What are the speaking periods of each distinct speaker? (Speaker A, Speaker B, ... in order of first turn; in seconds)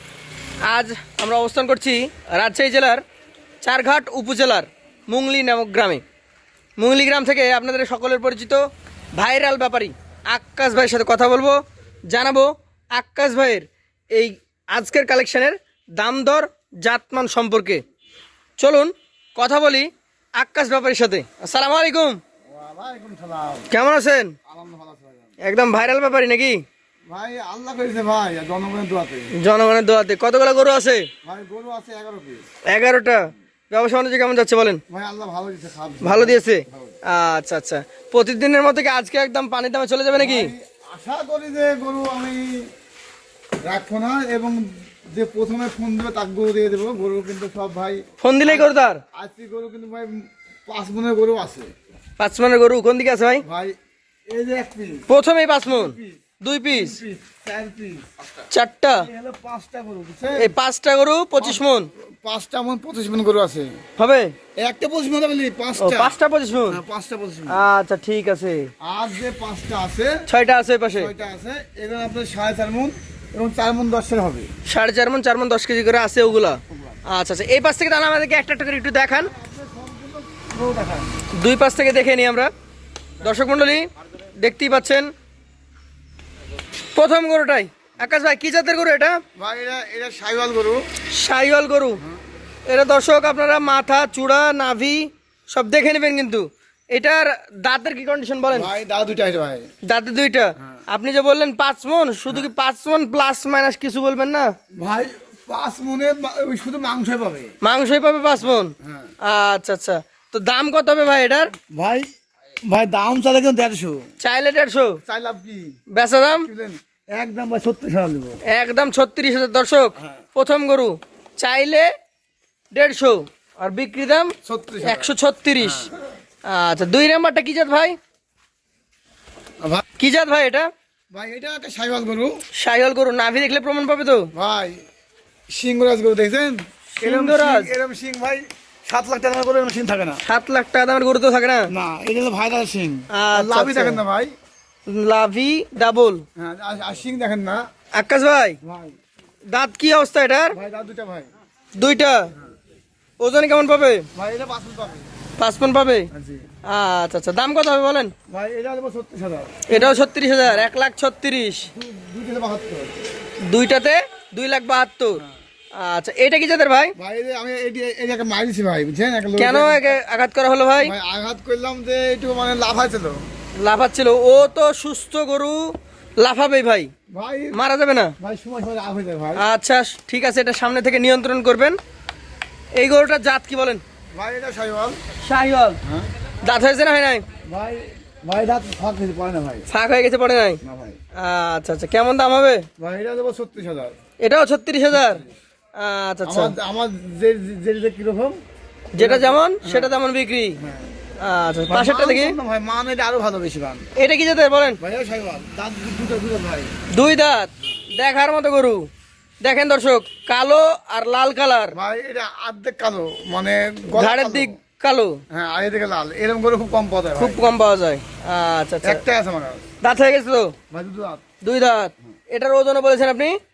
Speaker A: 0.7-3.0, 3.6-6.0, 6.8-8.6, 9.2-17.8, 18.6-22.2, 23.7-24.3, 25.4-26.6, 29.4-31.1, 32.7-34.8, 36.0-40.5, 48.2-49.0, 52.2-53.4, 55.1-57.0, 58.5-59.1, 60.3-61.9, 64.0-64.3, 65.8-66.8, 67.5-68.7, 70.3-71.1, 74.7-79.3, 81.4-82.5, 83.2-85.1, 86.9-89.2, 91.1-92.0, 92.7-98.7, 99.8-104.5, 107.6-111.5, 114.2-115.0, 115.9-116.5, 118.5-121.9, 122.7-125.9, 126.4-128.0, 130.0-130.7, 132.5-134.3, 137.0-137.7, 140.2-141.7, 143.1-144.0, 144.9-146.2, 147.9-148.6, 149.5-150.6, 151.8-152.3, 153.2-154.1, 155.4-156.1, 156.6-158.1, 159.7-161.7, 163.4-165.2, 165.8-166.9, 169.4-170.9, 173.6-176.9, 177.5-178.1, 179.3-181.8, 182.7-183.8, 185.2-185.8, 186.4-187.2, 189.7-190.6, 191.2-192.7, 194.2-195.2, 195.8-196.5, 198.9-200.6, 201.2-202.4, 203.9-204.8, 206.9-208.9, 209.4-211.7, 213.9-215.2, 217.2-219.0, 219.8-220.5, 221.4-223.4
Speaker B: 22.5-23.7, 24.4-25.3, 27.1-29.3, 31.2-32.4, 34.9-37.0, 40.1-42.7, 43.6-51.7, 53.4-53.7, 54.3-55.1, 55.6-58.1, 58.9-60.5, 61.4-61.6, 62.2-63.7, 64.6-66.1, 66.7-67.6, 68.8-70.2, 71.0-74.5, 76.7-77.0, 79.1-81.1, 89.3-90.8, 98.5-99.7, 100.6-100.8, 104.7-107.5, 108.4-109.1, 111.7-112.1, 112.7-114.0, 115.0-115.8, 116.4-118.4, 120.0-120.2, 124.4-125.9, 131.1-132.4, 134.3-134.8, 135.5-140.2, 141.7-144.3, 146.4-147.6, 148.6-148.9, 150.5-151.3, 154.1-155.1, 156.1-156.5, 158.3-160.7, 161.7-163.1, 166.9-170.0, 170.8-173.2, 177.1-177.6, 178.2-179.4, 184.1-185.0, 187.5-189.7, 190.6-191.0, 192.8-193.9, 194.9-195.3, 196.2-198.4, 199.0-199.9, 200.6-200.9, 201.7-203.8, 204.8-206.7, 211.7-214.6, 215.3-217.5, 218.8-219.6, 220.7-221.2